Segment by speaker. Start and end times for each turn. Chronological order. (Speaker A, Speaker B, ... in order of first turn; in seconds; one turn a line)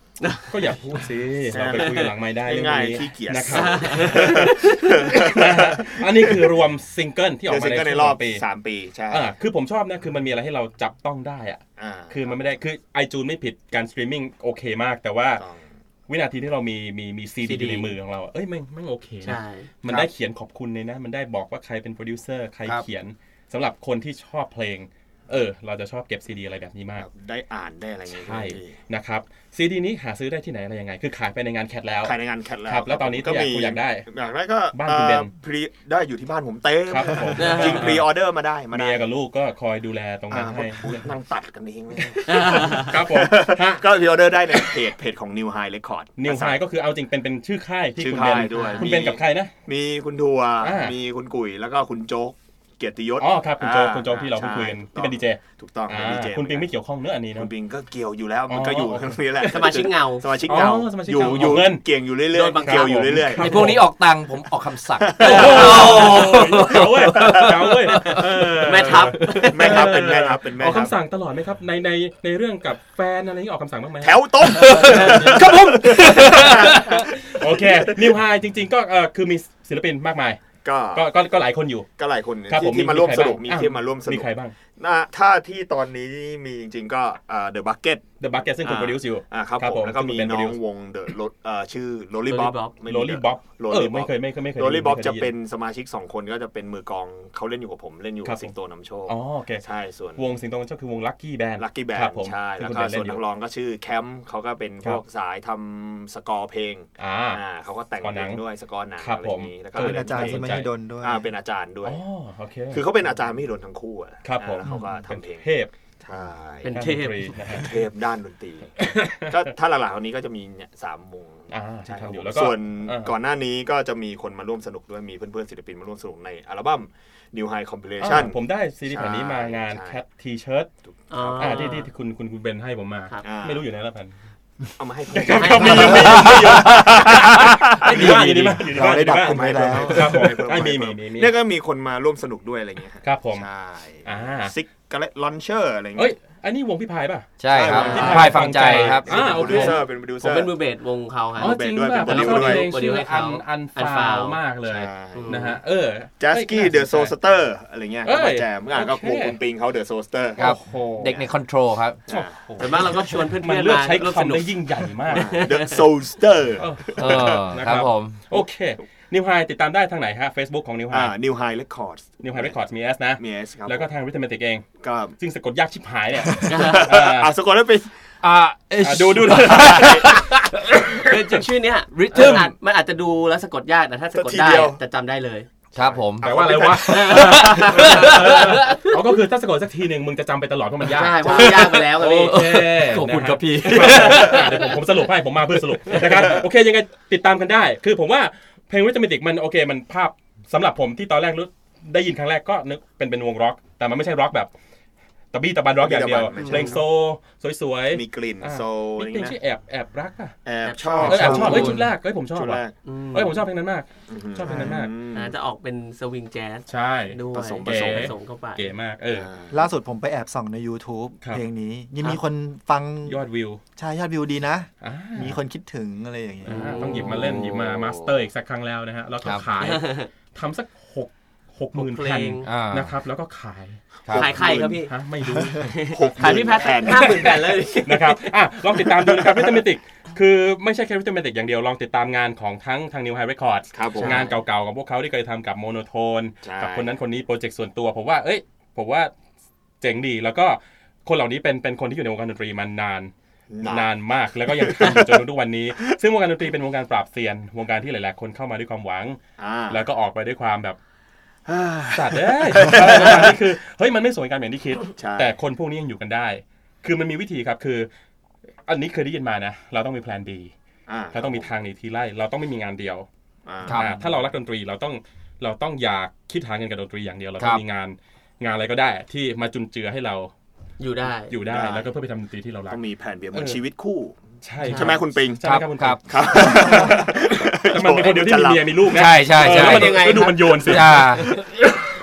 Speaker A: 0.2-0.5
Speaker B: 0.5-8.4
Speaker C: 1.5-6.6
Speaker A: 1.7-2.1
Speaker A: 3.5-5.0
Speaker C: 7.5-9.4
Speaker B: 9.1-15.4
Speaker C: 11.8-12.5
Speaker C: 15.4-15.7
Speaker B: 16.1-27.1
Speaker D: 17.4-17.9
Speaker A: 19.2-19.7
Speaker C: 27.0-28.8
Speaker B: 28.1-32.1
Speaker C: 32.0-39.0
Speaker B: 32.7-34.1
Speaker B: 34.7-35.3
Speaker B: 36.9-38.1
Speaker A: 37.4-38.0
Speaker B: 38.7-41.1
Speaker C: 40.3-46.6
Speaker B: 42.1-43.9
Speaker A: 42.3-43.0
Speaker B: 44.5-44.8
Speaker B: 46.2-49.5
Speaker C: 48.0-56.7
Speaker A: 48.5-48.9
Speaker B: 50.6-51.0
Speaker B: 53.2-57.5
Speaker C: 57.3-63.8
Speaker B: 58.5-59.8
Speaker A: 59.4-60.3
Speaker B: 60.4-61.9
Speaker A: 62.3-63.1
Speaker B: 62.6-63.9
Speaker D: 63.4-68.6
Speaker C: 65.0-68.2
Speaker A: 65.2-66.4
Speaker B: 65.2-81.9
Speaker A: 68.6-70.1
Speaker D: 69.1-69.5
Speaker C: 69.5-71.0
Speaker C: 74.0-78.2
Speaker D: 74.5-77.0
Speaker C: 80.6-81.1
Speaker C: 82.0-88.1
Speaker B: 82.5-84.5
Speaker B: 88.2-90.6
Speaker C: 88.6-100.3
Speaker A: 92.3-92.8
Speaker B: 92.8-95.3
Speaker B: 98.2-98.5
Speaker B: 99.1-99.7
Speaker B: 100.2-103.2
Speaker C: 101.6-112.0
Speaker B: 107.0-107.4
Speaker B: 108.0-108.4
Speaker B: 109.0-110.7
Speaker E: 109.8-111.3
Speaker B: 111.8-112.8
Speaker C: 112.7-115.5
Speaker B: 114.2-115.7
Speaker C: 116.0-116.9
Speaker A: 116.6-117.6
Speaker B: 116.7-117.8
Speaker C: 117.5-130.0
Speaker B: 118.8-119.5
Speaker B: 121.5-123.2
Speaker B: 128.0-130.7
Speaker C: 130.9-131.8
Speaker A: 131.1-131.9
Speaker B: 131.4-134.1
Speaker C: 133.2-133.7
Speaker C: 134.8-146.1
Speaker B: 135.1-141.3
Speaker A: 135.3-136.3
Speaker E: 137.9-140.3
Speaker B: 143.0-143.5
Speaker B: 144.0-144.5
Speaker B: 145.9-149.9
Speaker D: 147.4-149.6
Speaker C: 147.5-150.5
Speaker A: 147.8-148.1
Speaker A: 149.3-154.4
Speaker C: 151.4-152.7
Speaker B: 151.4-157.2
Speaker C: 154.7-155.6
Speaker A: 155.1-155.6
Speaker C: 156.2-161.3
Speaker B: 158.0-159.4
Speaker D: 160.4-162.0
Speaker C: 162.1-163.2
Speaker B: 162.1-165.4
Speaker A: 162.6-165.8
Speaker C: 165.1-167.4
Speaker B: 166.6-171.2
Speaker D: 167.0-168.2
Speaker C: 170.9-172.6
Speaker B: 172.2-174.7
Speaker C: 173.2-173.9
Speaker C: 174.8-175.2
Speaker B: 175.2-177.3
Speaker C: 176.3-177.9
Speaker A: 176.5-176.9
Speaker D: 178.2-181.0
Speaker B: 178.8-180.2
Speaker C: 179.5-180.1
Speaker A: 181.0-185.5
Speaker D: 181.9-182.5
Speaker C: 184.1-184.8
Speaker D: 185.8-186.3
Speaker C: 185.8-188.2
Speaker B: 186.2-204.5
Speaker A: 186.9-188.2
Speaker D: 186.9-188.9
Speaker A: 190.9-192.5
Speaker D: 191.2-194.7
Speaker B: 205.3-210.3
Speaker C: 205.8-206.9
Speaker A: 206.4-206.7
Speaker C: 207.9-209.4
Speaker C: 210.4-212.8
Speaker A: 210.6-211.3
Speaker B: 211.0-214.9
Speaker D: 211.2-211.9
Speaker E: 211.2-211.6
Speaker A: 212.8-213.5
Speaker C: 214.1-215.3
Speaker A: 215.1-218.7
Speaker B: 216.7-219.3
Speaker C: 217.3-218.1
Speaker C: 219.1-219.7
Speaker E: 219.5-223.2
Speaker B: 223.1-223.6
Speaker E: 223.8-226.8
Speaker B: 224.8-225.4
Speaker B: 226.4-233.8
Speaker A: 226.5-227.2
Speaker C: 226.8-228.2
Speaker A: 229.6-230.1
Speaker A: 231.7-232.5
Speaker D: 232.4-232.9
Speaker C: 234.1-234.9
Speaker A: 234.1-234.9
Speaker B: 234.4-249.1
Speaker A: 235.6-238.9
Speaker C: 235.8-237.4
Speaker C: 239.1-239.6
Speaker C: 243.7-244.3
Speaker A: 244.0-244.3
Speaker C: 246.4-247.0
Speaker B: 249.8-253.1
Speaker C: 253.5-255.3
Speaker B: 253.6-260.8
Speaker C: 259.4-259.8
Speaker C: 261.5-263.4
Speaker B: 261.9-267.9
Speaker C: 265.0-265.4
Speaker B: 268.7-270.5
Speaker C: 270.9-271.5
Speaker B: 271.1-273.1
Speaker C: 273.5-274.0
Speaker D: 273.7-274.0
Speaker B: 273.7-280.3
Speaker A: 280.8-281.4
Speaker B: 281.3-282.8
Speaker C: 281.5-281.9
Speaker C: 282.7-285.4
Speaker B: 283.3-283.6
Speaker B: 284.4-291.7
Speaker A: 284.6-285.0
Speaker D: 285.4-286.0
Speaker C: 286.1-289.0
Speaker D: 288.9-291.4
Speaker A: 289.4-291.3